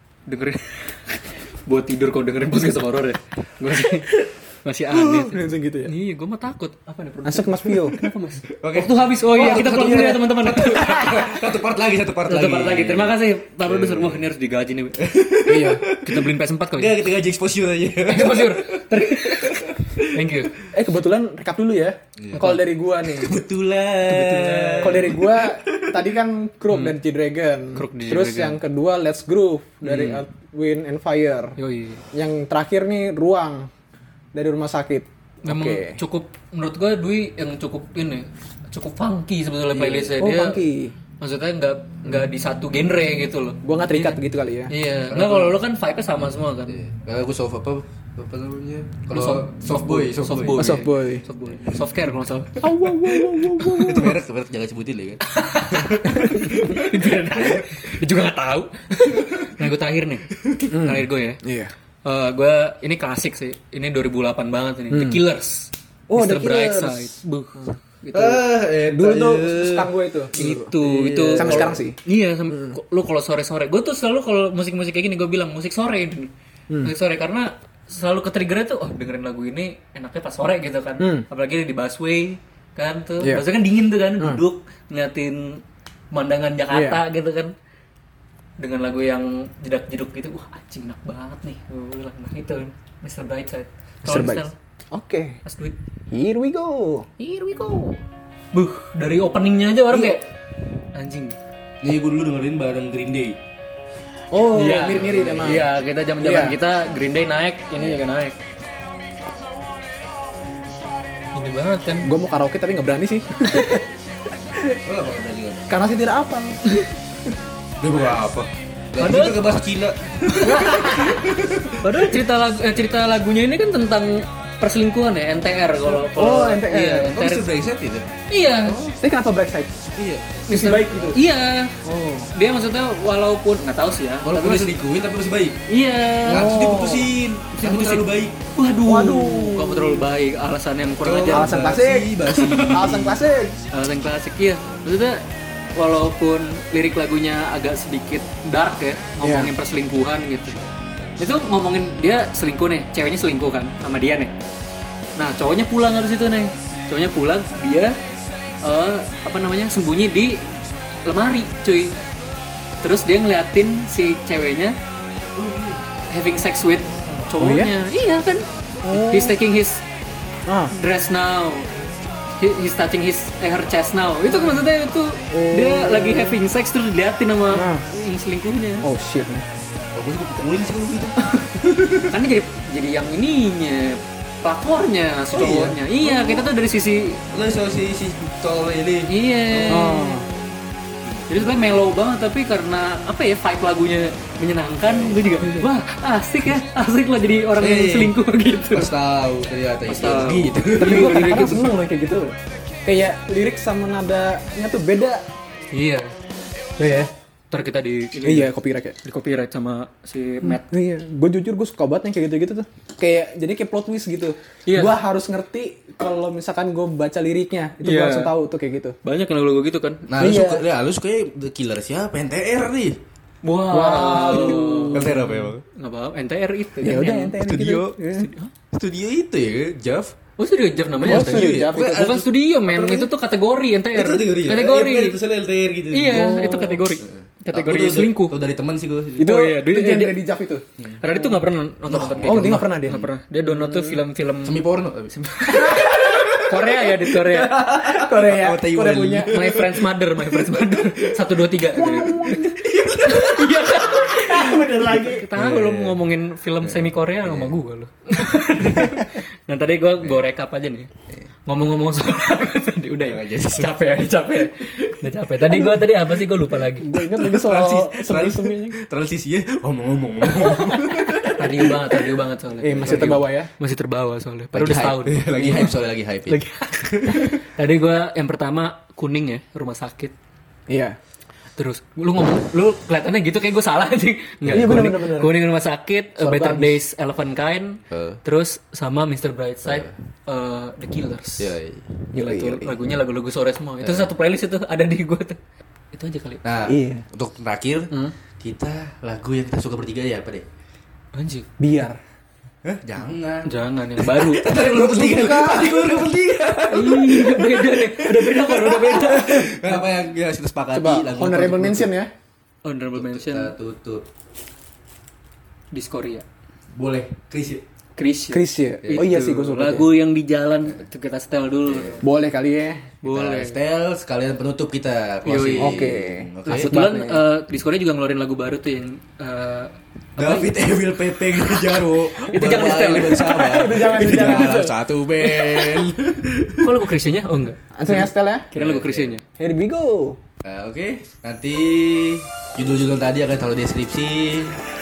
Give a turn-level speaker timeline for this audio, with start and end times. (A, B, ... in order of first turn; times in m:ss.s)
0:00.3-0:11.4 A
0:05.0-0:05.9 B
0:07.2-0:08.0 B
0:08.6-0:14.3 C
0:09.4-0:10.2 B
0:10.8-0:11.1 B
0:12.3-0:15.0 A
0:15.0-0:20.3 C
0:15.5-0:15.8 B
0:16.0-0:17.0 A
0:18.1-0:20.5 A
0:20.7-0:23.4 B
0:22.2-0:26.0 C
0:24.1-0:25.2 A
0:24.8-0:31.6 B
0:26.7-0:27.0 A
0:27.8-0:28.6 A
0:29.8-0:30.2 A
0:31.6-0:32.0 A
0:32.1-0:33.7 B
0:34.3-0:36.0 B
0:35.4-0:40.7 A
0:39.8-0:40.9 B
0:41.2-0:46.8 A
0:43.6-0:44.7 B
0:45.1-0:45.6 C
0:46.7-0:50.8 C
0:49.1-0:52.7 A
0:50.6-0:51.2 B
0:52.6-0:54.2 B
0:53.6-0:57.7 C
0:55.3-1:01.4 A
0:56.1-0:56.4 B
0:59.2-0:59.5 C
1:00.4-1:00.8 C
1:00.7-1:01.7 B
1:02.0-1:08.4 A
1:04.9-1:05.2 B
1:06.1-1:07.1 B
1:08.1-1:09.9 C
1:08.9-1:10.7 B
1:10.4-1:16.3 A
1:10.7-1:11.8 C
1:11.4-1:12.0 B
1:16.8-1:27.5 A
1:21.0-1:21.3 B
1:26.7-1:27.0 B
1:28.6-1:34.6 A
1:34.0-1:35.4 B
1:35.4-1:35.8 A
1:36.1-1:37.1 B
1:37.2-1:38.0 A
1:38.5-1:40.2 A
1:39.9-1:40.2 C
1:40.9-1:41.4 A
1:41.8-1:43.4 C
1:44.3-1:45.7 B
1:44.5-1:48.4 A
1:45.0-1:45.6 C
1:46.2-1:46.6 B
1:51.3-1:52.1 A
1:52.0-1:53.8 B
1:53.6-1:53.8 A
1:54.8-1:55.7 C
1:55.7-1:56.6 B
1:57.8-2:02.1 C
1:59.0-1:59.4 A
2:00.3-2:01.2 A
2:01.8-2:07.5 A
2:05.9-2:07.1 B
2:07.1-2:08.1 C
2:08.3-2:08.8 A
2:08.6-2:09.0 C
2:08.9-2:09.8 B
2:10.0-2:10.5 C
2:10.5-2:14.7 A
2:10.5-2:11.2 B
2:11.8-2:12.3 B
2:14.2-2:15.6 C
2:15.7-2:16.6 A
2:16.3-2:17.1 B
2:16.3-2:18.4 C
2:17.6-2:21.6 A
2:18.8-2:20.1 B
2:21.0-2:23.2 C
2:21.3-2:22.2 B
2:22.3-2:22.8 A
2:22.7-2:23.6 B
2:23.7-2:25.2 A
2:25.8-2:30.6 A
2:29.2-2:29.5 B
2:31.2-2:34.3 A
2:35.2-2:38.0 A
2:38.6-2:40.4 A
2:41.0-2:42.0 A
2:42.8-2:44.8 A
2:45.4-2:45.8 C
2:46.1-2:49.8 A
2:47.4-2:47.7 B
2:48.8-2:49.4 B
2:50.5-2:50.7 B
2:50.7-2:51.7 A
2:52.4-2:58.9 A
2:55.3-2:56.4 B
2:57.5-2:57.8 B
2:58.8-2:59.4 B
3:00.0-3:02.2 C
3:02.0-3:07.2 A
3:05.3-3:06.5 C
3:07.3-3:10.0 C
3:09.1-3:10.2 A
3:09.7-3:10.3 B
3:11.0-3:11.5 C
3:11.3-3:18.9 A
3:17.6-3:18.2 C
3:18.7-3:21.4 C
3:19.9-3:21.7 A
3:20.8-3:25.2 B
3:25.7-3:26.1 A
3:26.8-3:27.1 B
3:27.5-3:28.5 A
3:28.2-3:29.0 B
3:29.0-3:30.7 A
3:30.4-3:39.0 B
3:34.7-3:35.0 A
3:37.8-3:38.3 A
3:39.0-3:40.1 A
3:40.1-3:43.0 C
3:40.2-3:40.6 B
3:43.4-3:47.4 A
3:43.7-3:45.3 B
3:44.0-3:45.6 C
3:46.8-3:48.3 B
3:47.3-3:48.0 C
3:48.1-3:48.5 A
3:48.7-3:50.1 C
3:50.4-3:55.2 A
3:51.0-3:53.1 C
3:51.0-3:52.0 B
3:53.9-3:59.3 C
3:55.9-3:58.4 A
3:56.1-3:56.8 B
3:59.2-4:00.6 B
3:59.2-4:00.2 A
4:01.0-4:04.6 A
4:01.9-4:03.1 C
4:02.2-4:04.0 B
4:04.4-4:11.2 C
4:05.4-4:07.6 A
4:05.6-4:06.0 B
4:07.8-4:09.4 B
4:09.2-4:12.4 A
4:11.7-4:12.6 B
4:12.4-4:16.0 C
4:13.0-4:20.9 A
4:14.0-4:15.3 B
4:16.6-4:17.6 C
4:21.5-4:26.9 A
4:23.0-4:23.8 C
4:25.5-4:25.9 B
4:26.8-4:28.8 B
4:27.1-4:31.7 C
4:30.3-4:35.7 A
4:32.6-4:33.5 B
4:34.5-4:37.3 C
4:36.3-4:40.1 A
4:40.7-4:41.0 B
4:41.6-4:51.6 A
4:44.4-4:44.9 C
4:44.5-4:45.4 B
4:46.2-4:46.8 B
4:47.9-4:48.2 C
4:49.6-4:49.9 C
4:51.4-4:52.0 C
4:52.1-4:52.8 B
4:52.1-4:55.4 A
4:53.8-4:54.1 C
4:55.9-4:56.4 A
4:56.4-5:00.5 C
4:56.7-4:57.0 B
5:01.2-5:01.5 A
5:01.6-5:02.0 B
5:02.6-5:11.9 C
5:03.5-5:04.5 A
5:04.6-5:05.9 B
5:06.7-5:09.6 A
5:09.3-5:09.8 B
5:10.7-5:12.1 B
5:12.6-5:13.6 A
5:13.0-5:14.0 C
5:15.7-5:16.2 A
5:16.8-5:17.6 C
5:18.0-5:22.0 A
5:18.3-5:19.9 B
5:21.6-5:22.0 C
5:22.0-5:22.9 B
5:23.0-5:23.6 A
5:23.0-5:26.7 C
5:25.3-5:25.8 A
5:25.6-5:27.2 B
5:26.5-5:30.5 A
5:30.2-5:36.7 C
5:32.2-5:34.4 A
5:33.3-5:34.8 B
5:36.6-5:39.2 A
5:37.8-5:38.5 B
5:38.6-5:39.2 C
5:39.4-5:40.2 B
5:40.4-5:44.6 C